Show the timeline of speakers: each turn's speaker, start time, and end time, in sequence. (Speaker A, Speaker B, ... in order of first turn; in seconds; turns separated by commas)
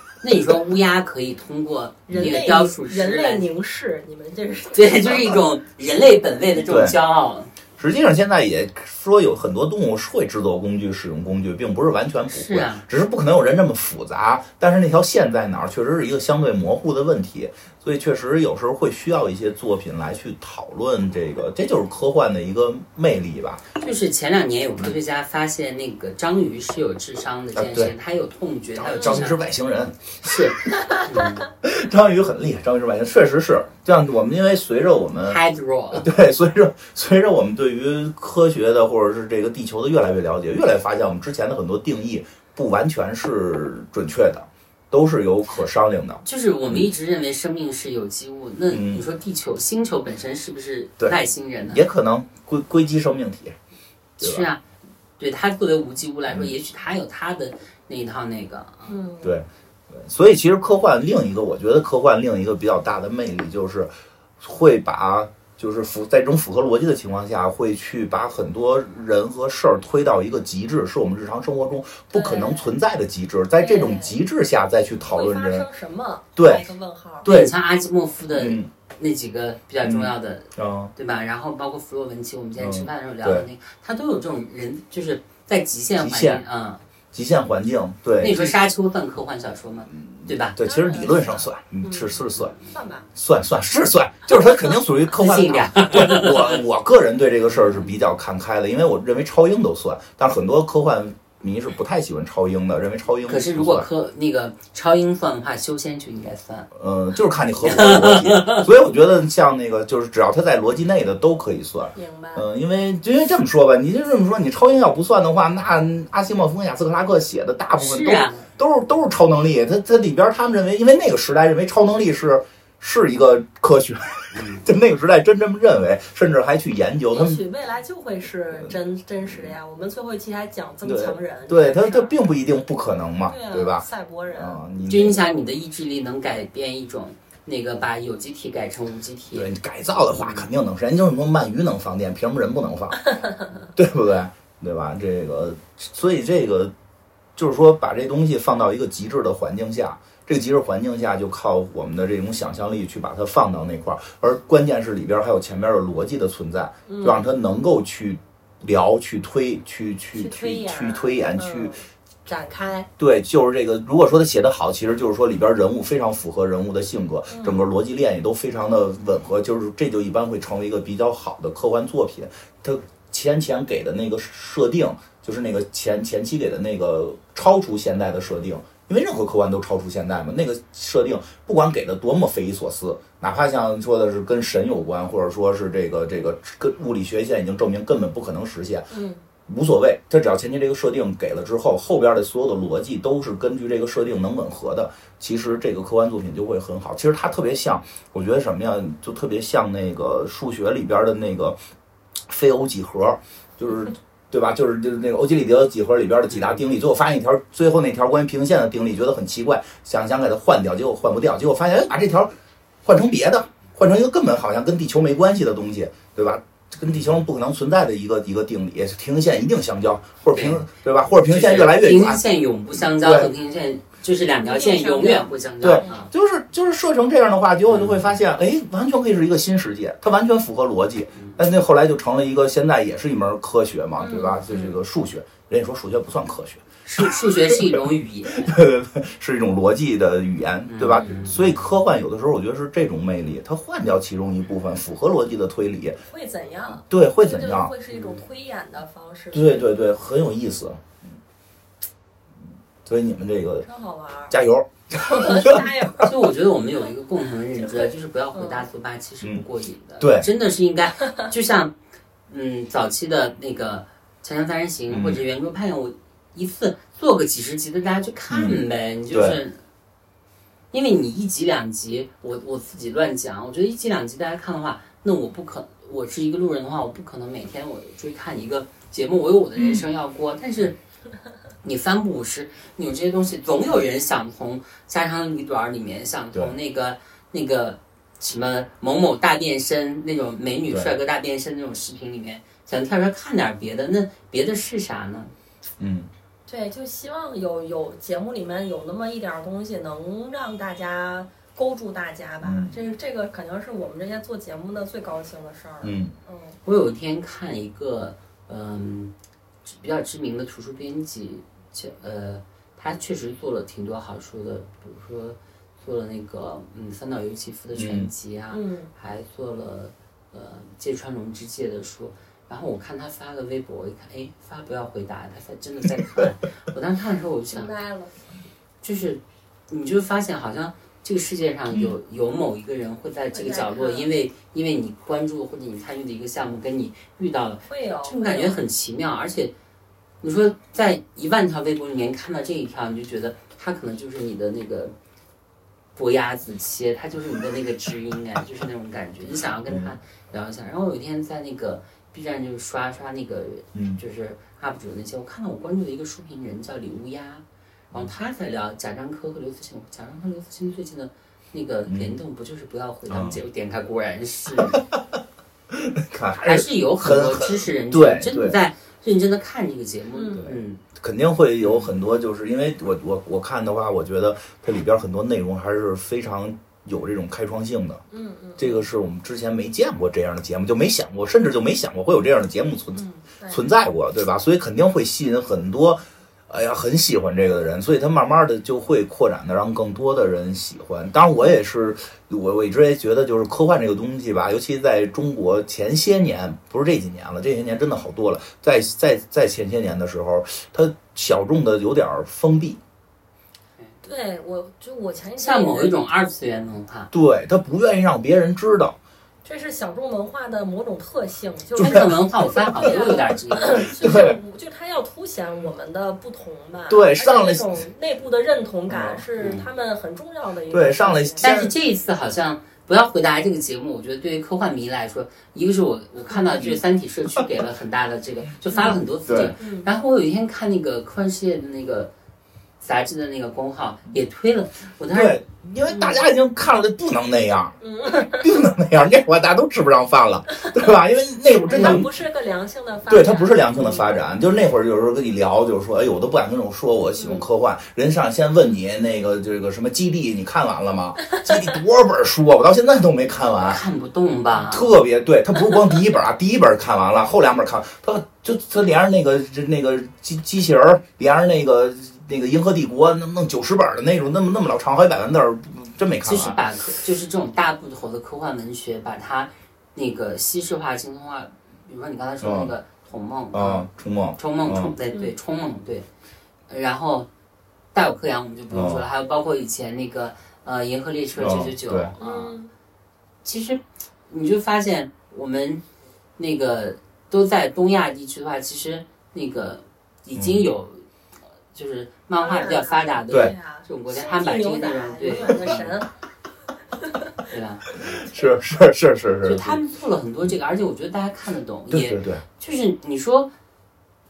Speaker A: 0.2-3.5, Speaker B: 2.1-5.4, Speaker C: 2.1-2.4, Speaker A: 4.7-7.5, Speaker C: 6.6-6.9, Speaker C: 7.8-23.6, Speaker A: 12.3-12.8, Speaker A: 23.8-29.4, Speaker C: 27.5-27.9, Speaker C: 28.7-30.5, Speaker B: 28.9-29.2, Speaker A: 30.2-31.5, Speaker C: 31.6-35.4, Speaker A: 35.2-36.1, Speaker C: 35.9-46.8, Speaker A: 46.2-51.8, Speaker C: 48.7-49.0, Speaker C: 51.7-53.5, Speaker A: 54.2-54.6, Speaker C: 54.2-54.5, Speaker A: 55.2-58.9, Speaker B: 58.9-59.4, Speaker C: 59.2-75.7, Speaker B: 72.1-72.7, Speaker B: 73.6-74.2, Speaker B: 75.1-77.2, Speaker C: 76.3-76.7, Speaker C: 77.2-77.5, Speaker A: 77.2-86.8, Speaker C: 78.3-78.7, Speaker C: 79.8-80.9, Speaker C: 82.6-83.5, Speaker C: 86.0-86.4, Speaker C: 87.1-88.5, Speaker A: 88.2-90.6, Speaker C: 89.9-92.5, Speaker B: 90.6-93.1, Speaker C: 93.1-103.9, Speaker A: 95.1-96.6, Speaker A: 97.5-97.9, Speaker A: 103.3-106.7, Speaker C: 106.7-127.4, Speaker A: 107.6-108.7, Speaker B: 111.9-112.4, Speaker A: 117.8-118.5, Speaker A: 124.3-124.7, Speaker B: 127.1-132.1, Speaker C: 129.2-129.5, Speaker C: 130.8-135.2, Speaker B: 133.3-134.6, Speaker A: 134.9-139.5, Speaker C: 139.3-143.1, Speaker A: 140.1-140.5, Speaker C: 143.7-146.7, Speaker C: 147.3-161.7, Speaker B: 156.9-157.2, Speaker B: 160.1-162.9, Speaker C: 163.0-188.9, Speaker B: 167.3-167.6, Speaker B: 188.9-189.2, Speaker C: 189.5-201.6, Speaker C: 202.3-212.3, Speaker C: 212.8-222.2, Speaker A: 220.3-220.6, Speaker A: 221.2-226.1, Speaker C: 222.8-223.3, Speaker B: 224.4-226.0, Speaker C: 225.6-246.0, Speaker A: 227.7-228.2, Speaker B: 234.0-234.8, Speaker A: 236.8-238.5, Speaker A: 240.7-241.4, Speaker B: 246.1-249.7, Speaker C: 246.9-247.7, Speaker A: 247.9-248.2, Speaker C: 249.3-251.0, Speaker C: 252.8-253.7, Speaker B: 253.6-254.3, Speaker C: 254.3-255.7, Speaker B: 254.9-256.1, Speaker A: 256.0-261.7, Speaker B: 257.6-258.6, Speaker C: 260.0-260.3, Speaker A: 262.3-269.6, Speaker C: 264.9-265.2, Speaker C: 268.3-268.6, Speaker C: 269.1-269.4, Speaker A: 270.7-280.8, Speaker C: 279.6-279.9, Speaker A: 281.6-295.3, Speaker C: 295.8-296.1, Speaker B: 296.5-306.6, Speaker C: 302.4-302.7, Speaker C: 305.8-306.1, Speaker A: 306.6-309.1, Speaker A: 309.6-327.7, Speaker C: 317.7-318.1, Speaker B: 318.5-318.9, Speaker B: 327.5-328.1, Speaker A: 328.8-339.5, Speaker B: 333.3-334.1, Speaker B: 337.7-338.6, Speaker A: 340.2-344.9, Speaker A: 345.9-364.8, Speaker C: 349.7-349.9, Speaker C: 353.7-354.0, Speaker C: 361.9-362.1, Speaker C: 363.1-363.4, Speaker C: 364.6-365.1, Speaker C: 365.7-368.6, Speaker A: 366.4-370.8, Speaker B: 370.1-370.5, Speaker C: 370.4-378.0, Speaker A: 371.6-371.9, Speaker B: 378.1-378.9, Speaker C: 378.6-402.8, Speaker B: 382.9-383.6, Speaker B: 404.0-406.0, Speaker A: 405.4-407.1, Speaker C: 407.1-409.0, Speaker B: 409.4-421.5, Speaker C: 411.8-412.1, Speaker A: 411.8-414.3, Speaker C: 412.7-412.9, Speaker C: 414.0-414.4, Speaker C: 416.9-417.7, Speaker C: 418.9-419.2, Speaker A: 419.4-419.6, Speaker C: 420.7-421.7, Speaker A: 421.4-432.1, Speaker C: 428.8-429.5, Speaker B: 429.6-429.9, Speaker A: 432.8-435.4, Speaker C: 435.1-442.1, Speaker B: 435.9-436.2, Speaker B: 437.8-438.6, Speaker B: 441.7-444.1, Speaker C: 443.1-453.8, Speaker B: 447.2-447.4, Speaker A: 453.6-454.9, Speaker C: 454.7-466.6, Speaker A: 466.2-473.9, Speaker C: 472.4-472.7, Speaker C: 473.5-474.9, Speaker A: 474.4-476.1, Speaker A: 476.7-477.3, Speaker A: 477.9-482.5, Speaker C: 478.7-479.0, Speaker C: 481.4-482.1, Speaker B: 482.2-482.7, Speaker A: 483.4-485.8, Speaker A: 486.4-491.0, Speaker C: 490.3-490.6, Speaker A: 491.7-495.9, Speaker B: 492.4-496.1, Speaker A: 497.5-497.8, Speaker C: 497.9-499.8, Speaker A: 499.4-503.5, Speaker C: 501.9-502.4